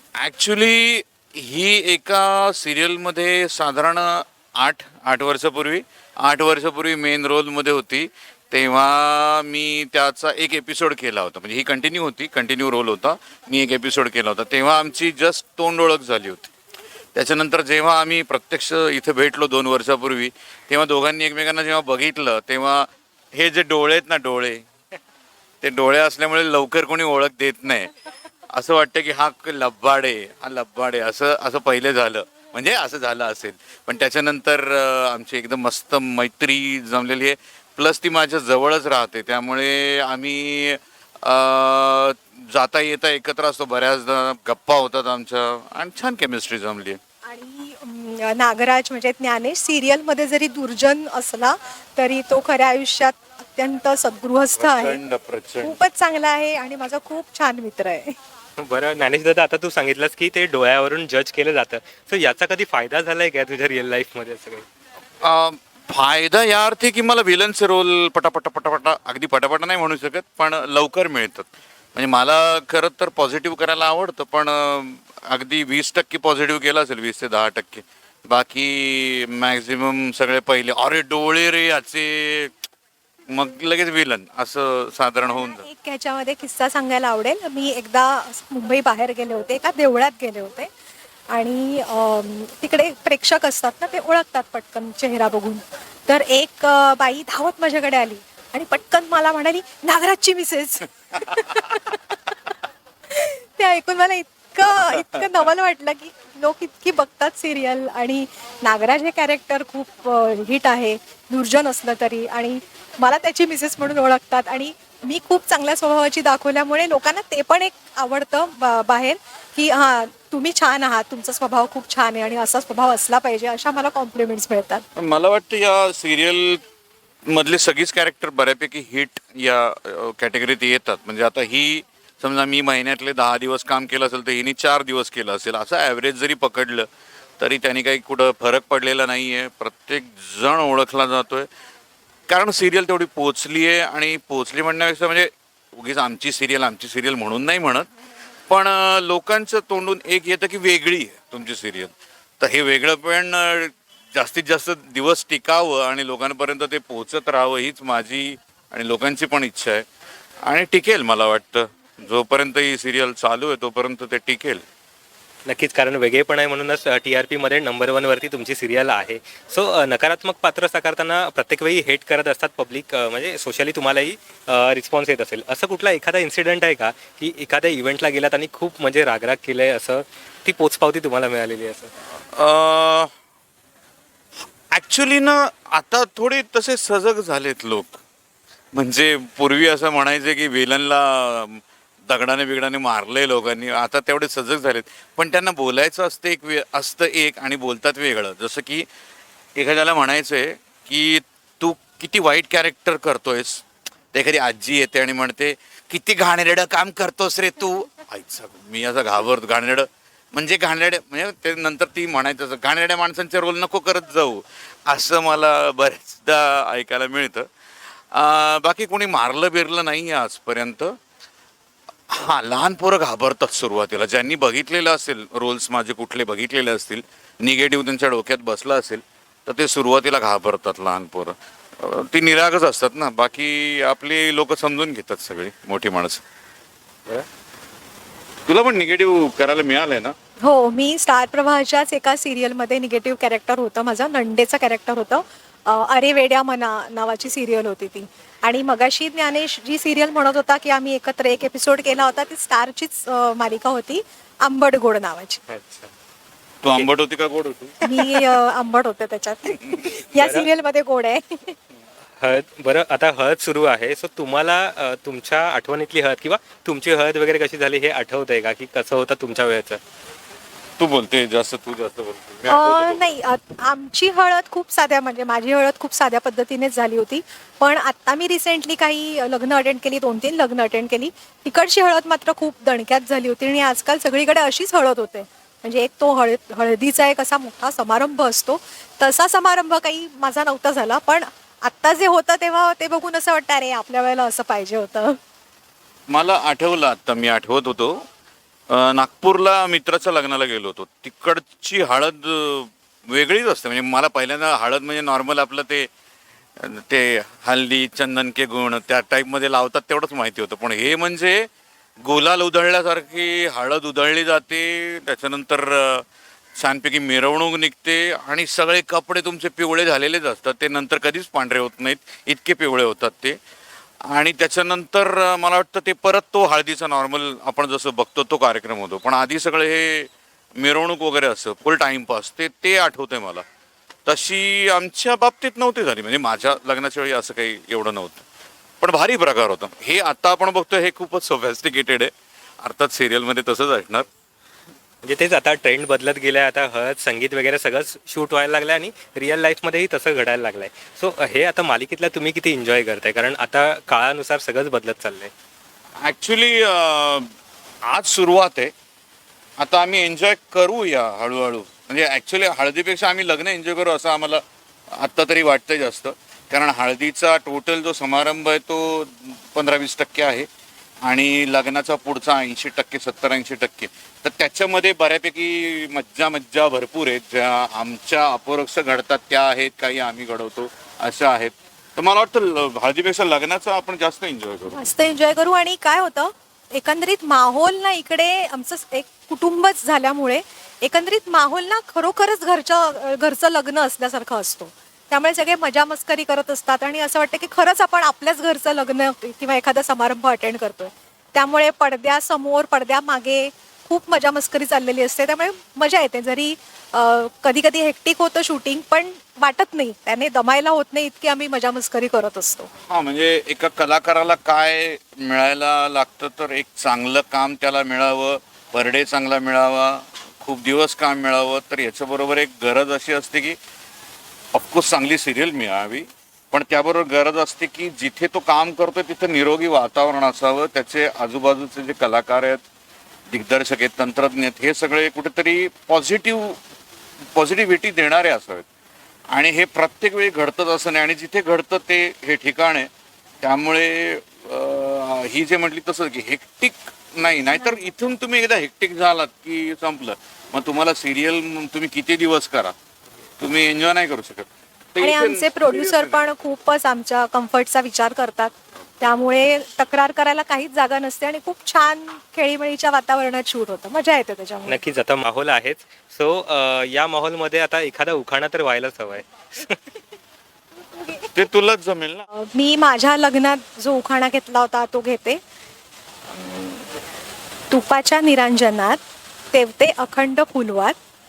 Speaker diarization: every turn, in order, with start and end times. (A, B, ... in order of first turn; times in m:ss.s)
0:00.2-0:16.5 A
0:17.2-0:24.7 A
0:25.6-0:27.9 A
0:28.5-0:47.0 A
0:47.3-0:55.0 B
0:54.6-0:55.8 A
0:55.6-0:58.2 B
0:58.6-1:04.7 C
1:05.2-1:22.5 A
1:23.3-1:25.6 A
1:25.3-1:30.7 B
1:31.3-1:42.0 B
1:43.1-2:04.8 B
2:05.0-2:06.6 A
2:07.3-2:16.9 A
2:17.4-2:21.5 A
2:22.3-2:27.9 A
2:28.5-2:39.8 A
2:40.4-2:44.6 A
2:45.5-3:01.9 C
3:02.3-3:03.1 A
3:04.7-3:08.0 A
3:08.7-3:18.9 A
3:19.6-3:37.5 A
3:38.1-3:41.0 A
3:42.1-3:56.2 A
3:58.5-4:00.2 A
4:00.4-4:15.4 B
4:15.5-4:15.9 C
4:16.6-4:17.8 A
4:17.8-4:21.6 B
4:20.2-4:20.5 C
4:22.2-4:29.8 C
4:30.8-4:33.1 A
4:32.5-4:55.2 B
4:56.1-4:58.0 A
4:58.7-5:05.9 A
5:06.6-5:11.5 A
5:12.0-5:16.0 A
5:16.6-5:23.4 A
5:24.0-5:33.4 A
5:34.1-5:38.2 A
5:38.8-5:44.1 A
5:45.0-5:55.3 C
5:56.0-5:57.3 A
5:57.8-5:58.7 A
5:59.6-6:10.5 A
6:11.1-6:24.8 A
6:24.7-6:52.7 B
6:52.9-7:03.6 A
7:04.5-7:12.6 A
7:13.3-7:16.6 A
7:17.4-7:18.7 A
7:19.3-7:22.9 A
7:23.4-7:32.7 A
7:33.4-7:36.2 A
7:35.0-7:44.8 B
7:44.7-7:49.9 C
7:50.9-7:51.3 B
7:51.3-7:52.3 A
7:52.4-7:55.4 B
7:57.7-7:59.0 B
7:59.5-8:01.0 B